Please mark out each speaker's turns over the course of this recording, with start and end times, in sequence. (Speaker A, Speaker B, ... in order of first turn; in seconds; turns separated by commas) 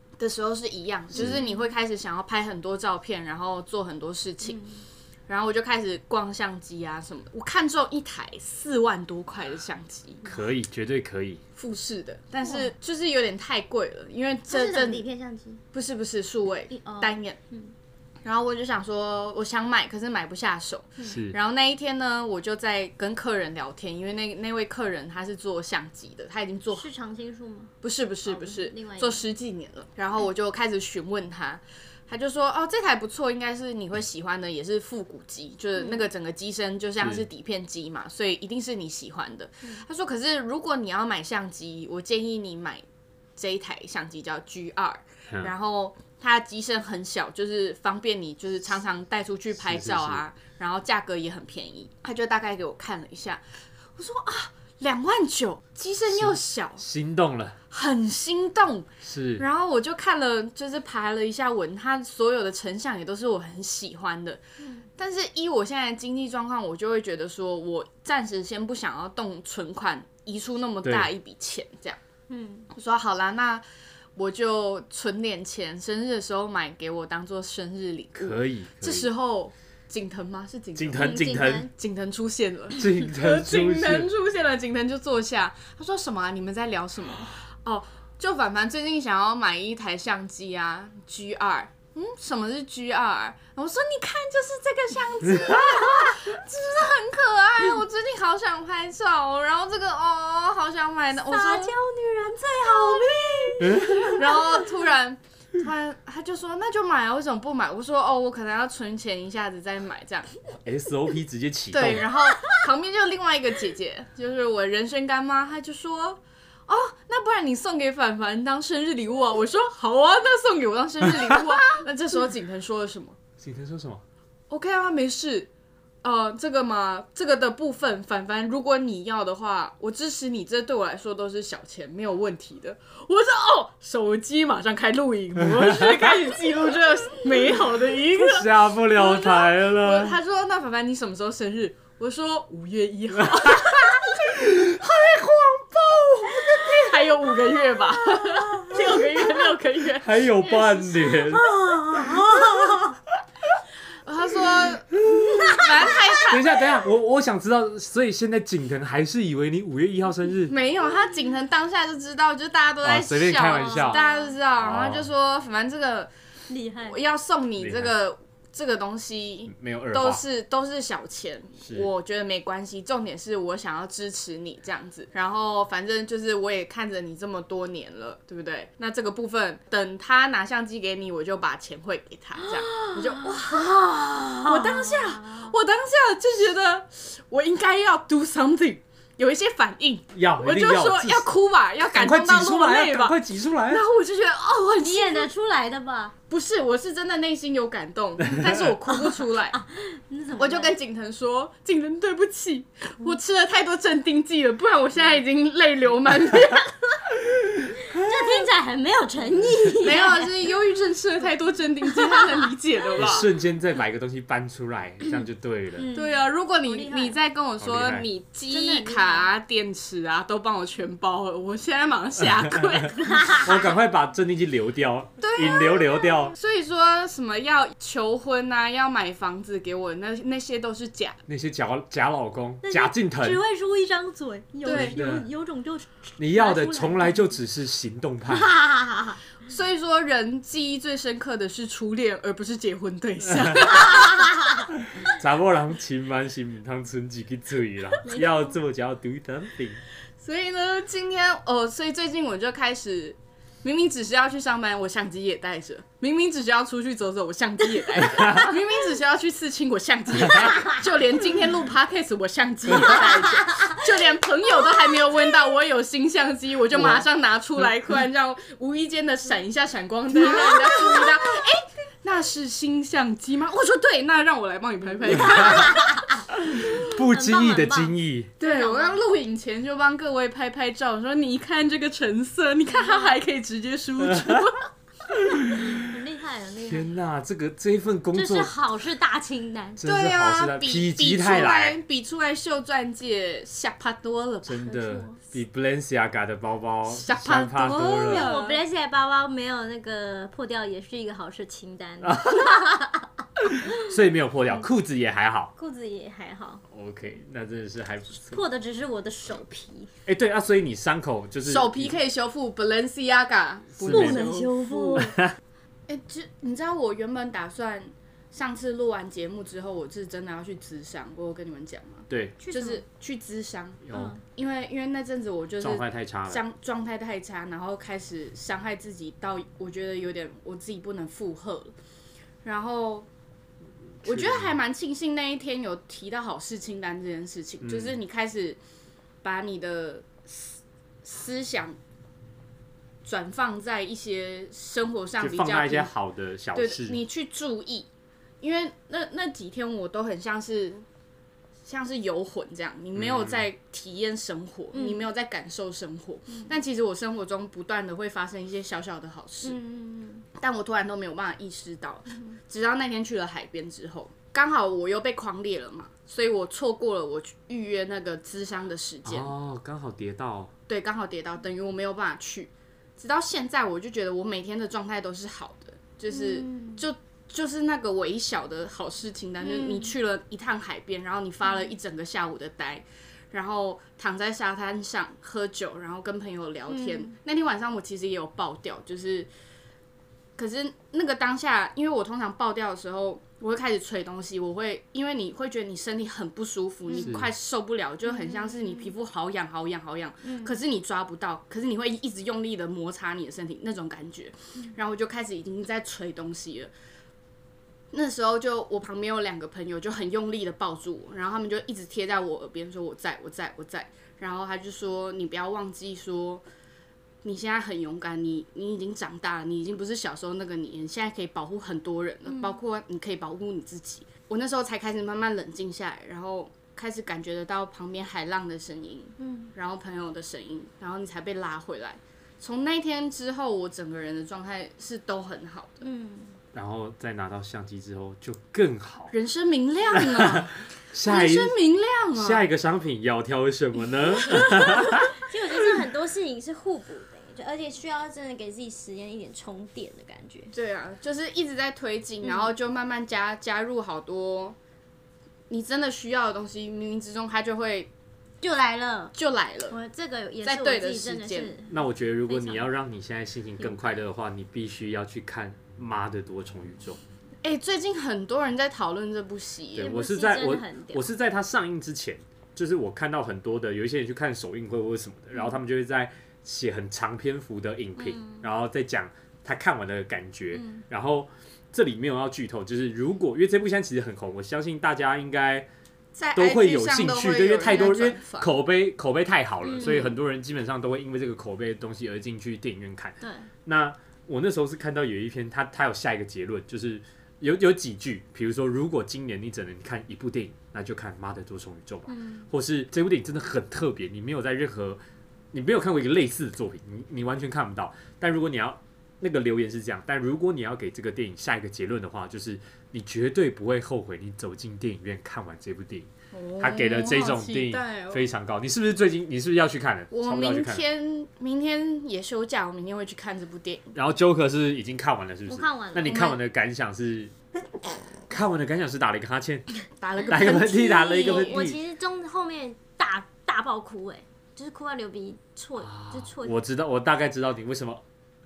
Speaker A: 0.2-4.6, Speaker B: 1.2-1.6, Speaker B: 4.4-4.8, Speaker A: 5.3-10.2, Speaker C: 10.2-11.4, Speaker A: 11.6-15.1, Speaker B: 12.4-12.7, Speaker B: 14.5-15.6, Speaker A: 15.7-17.4, Speaker B: 16.7-17.7, Speaker A: 18.2-26.9, Speaker C: 21.1-21.4, Speaker B: 26.7-27.7, Speaker A: 27.8-42.8, Speaker B: 28.2-29.2, Speaker B: 35.8-36.1, Speaker A: 43.4-53.4, Speaker C: 49.6-50.2, Speaker A: 54.0-56.8, Speaker C: 56.1-57.6, Speaker A: 57.7-64.4, Speaker C: 59.0-59.4, Speaker B: 64.6-64.9, Speaker A: 65.0-72.0, Speaker C: 70.8-71.1, Speaker B: 72.3-72.7, Speaker A: 72.7-73.6, Speaker A: 74.2-101.7, Speaker C: 78.1-79.1, Speaker C: 80.8-81.7, Speaker B: 80.9-81.7, Speaker C: 82.8-84.1, Speaker B: 101.2-104.6, Speaker A: 102.7-110.3, Speaker C: 103.6-104.0, Speaker C: 110.6-112.1, Speaker A: 111.7-123.2, Speaker C: 123.4-124.0, Speaker A: 124.5-125.5, Speaker A: 126.0-144.2, Speaker C: 135.4-136.1, Speaker C: 138.1-140.2, Speaker C: 143.2-146.5, Speaker A: 146.4-150.2, Speaker C: 150.0-152.8, Speaker B: 150.9-153.0, Speaker A: 154.1-156.6, Speaker C: 155.1-160.5, Speaker A: 160.5-166.1, Speaker C: 162.8-164.0, Speaker B: 163.6-164.3, Speaker C: 164.6-165.1, Speaker B: 166.5-167.0, Speaker A: 166.8-183.7, Speaker C: 167.6-167.9, Speaker C: 169.5-170.2, Speaker C: 171.6-171.9, Speaker B: 182.4-185.5, Speaker A: 184.4-193.2, Speaker C: 190.1-191.3, Speaker C: 191.9-193.8, Speaker A: 193.7-195.3, Speaker B: 194.8-196.1, Speaker A: 196.3-199.6, Speaker B: 198.9-200.7, Speaker A: 200.4-207.0, Speaker B: 207.9-210.3, Speaker A: 209.7-213.3, Speaker B: 211.9-212.5, Speaker C: 212.9-215.9, Speaker B: 215.8-217.2, Speaker A: 215.9-223.7, Speaker C: 217.6-218.1, Speaker B: 218.5-219.3, Speaker B: 222.9-223.5, Speaker C: 223.4-226.3, Speaker A: 225.2-231.2, Speaker C: 231.3-233.4, Speaker B: 232.6-237.2, Speaker A: 234.6-235.0, Speaker C: 234.7-235.2, Speaker C: 236.2-238.5, Speaker B: 238.3-239.2, Speaker A: 239.4-244.2, Speaker C: 245.0-249.8, Speaker A: 250.2-276.0, Speaker C: 266.7-267.0, Speaker B: 270.1-271.4, Speaker B: 275.2-276.2, Speaker C: 275.2-275.7, Speaker C: 276.3-278.3, Speaker B: 276.8-279.0, Speaker A: 278.4-284.7, Speaker B: 282.7-283.1, Speaker C: 284.1-284.4, Speaker C: 285.1-285.7, Speaker B: 285.5-286.9, Speaker C: 286.6-288.5, Speaker B: 288.1-289.8, Speaker C: 289.8-291.8, Speaker A: 289.8-294.8, Speaker C: 294.4-298.2, Speaker B: 294.7-295.2, Speaker A: 296.9-298.6, Speaker B: 297.6-303.1, Speaker C: 302.0-302.7, Speaker C: 303.5-305.5, Speaker B: 305.6-306.6, Speaker C: 306.7-308.4, Speaker B: 308.3-309.9, Speaker C: 310.1-311.9, Speaker A: 311.4-315.1, Speaker C: 313.8-314.3, Speaker B: 313.9-315.2, Speaker C: 315.0-315.3, Speaker A: 315.9-331.7, Speaker C: 322.1-322.4, Speaker B: 322.4-322.8, Speaker C: 323.8-324.1, Speaker B: 323.9-324.2, Speaker C: 325.6-326.4, Speaker A: 332.4-333.1, Speaker C: 334.0-334.6, Speaker A: 334.0-338.6, Speaker C: 337.6-338.0, Speaker A: 339.2-341.8, Speaker A: 343.0-345.9, Speaker C: 345.2-347.0, Speaker A: 346.5-347.9, Speaker A: 348.4-350.8, Speaker A: 351.6-359.6, Speaker C: 352.9-353.4, Speaker B: 354.7-355.0, Speaker B: 359.4-360.2, Speaker A: 360.4-369.3, Speaker C: 369.0-370.5, Speaker A: 370.7-389.3, Speaker B: 376.1-376.9, Speaker B: 379.4-379.9, Speaker B: 381.5-381.7, Speaker B: 386.7-387.1, Speaker A: 390.4-406.7, Speaker C: 397.0-397.3, Speaker B: 398.0-398.9, Speaker B: 400.2-400.5, Speaker A: 407.9-416.4, Speaker A: 417.2-435.8, Speaker B: 422.3-422.6, Speaker B: 429.2-429.5, Speaker B: 435.8-436.4, Speaker C: 436.5-439.1, Speaker A: 439.1-440.5, Speaker C: 439.9-441.6, Speaker A: 441.0-442.5, Speaker C: 442.1-445.1, Speaker B: 445.2-450.5, Speaker A: 450.5-454.6, Speaker B: 452.2-452.5, Speaker A: 455.5-457.9, Speaker B: 458.4-459.1, Speaker A: 459.1-459.8, Speaker B: 459.7-462.6, Speaker A: 460.4-461.5, Speaker C: 461.7-467.0, Speaker B: 463.6-463.9, Speaker A: 467.4-469.9, Speaker C: 469.7-485.7, Speaker B: 469.8-471.0, Speaker B: 478.0-478.5, Speaker B: 480.5-480.8, Speaker A: 486.1-488.5, Speaker C: 486.3-505.0, Speaker B: 489.6-490.1, Speaker A: 489.8-490.1, Speaker B: 493.2-493.5, Speaker B: 502.1-502.5, Speaker C: 505.5-520.8, Speaker A: 516.3-518.2, Speaker A: 520.1-523.9, Speaker C: 523.9-527.3, Speaker B: 525.5-526.3, Speaker A: 526.0-526.4, Speaker C: 528.3-529.7, Speaker A: 530.0-531.6, Speaker C: 530.3-531.8, Speaker B: 530.5-536.5, Speaker C: 535.8-538.0